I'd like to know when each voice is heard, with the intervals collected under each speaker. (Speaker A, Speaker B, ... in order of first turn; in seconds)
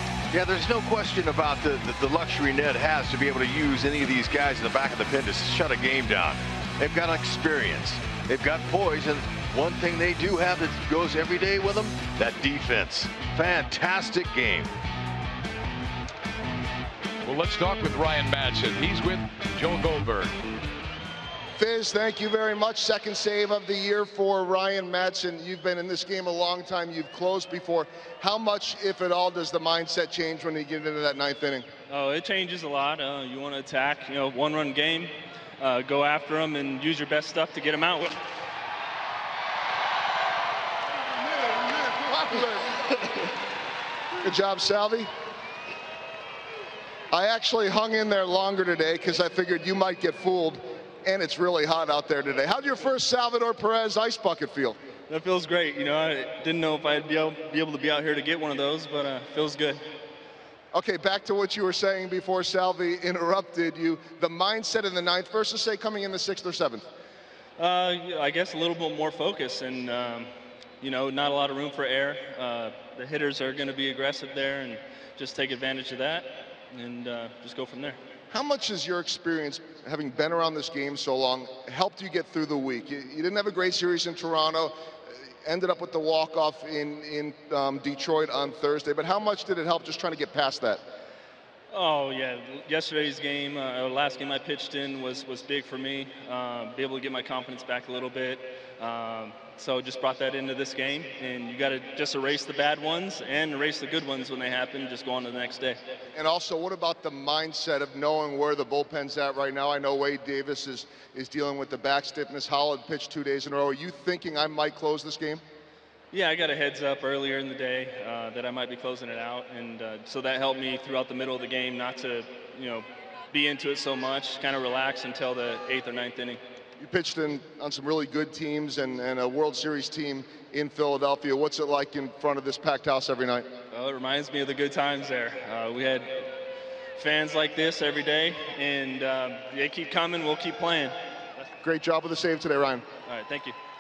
Speaker A: 0.3-14.7
Speaker B: 17.2-20.3
Speaker C: 21.6-31.6, 41.3-42.9, 44.2-45.1, 47.1-54.8, 60.7-66.8, 78.3-84.7, 85.4-90.8, 106.1-115.4, 126.8-133.5, 141.6-142.8
Speaker D: 31.9-38.2, 55.1-59.8, 67.6-70.3, 70.8-78.0, 91.7-105.8, 116.1-126.4, 133.7-136.3, 137.0-140.9, 143.1-143.6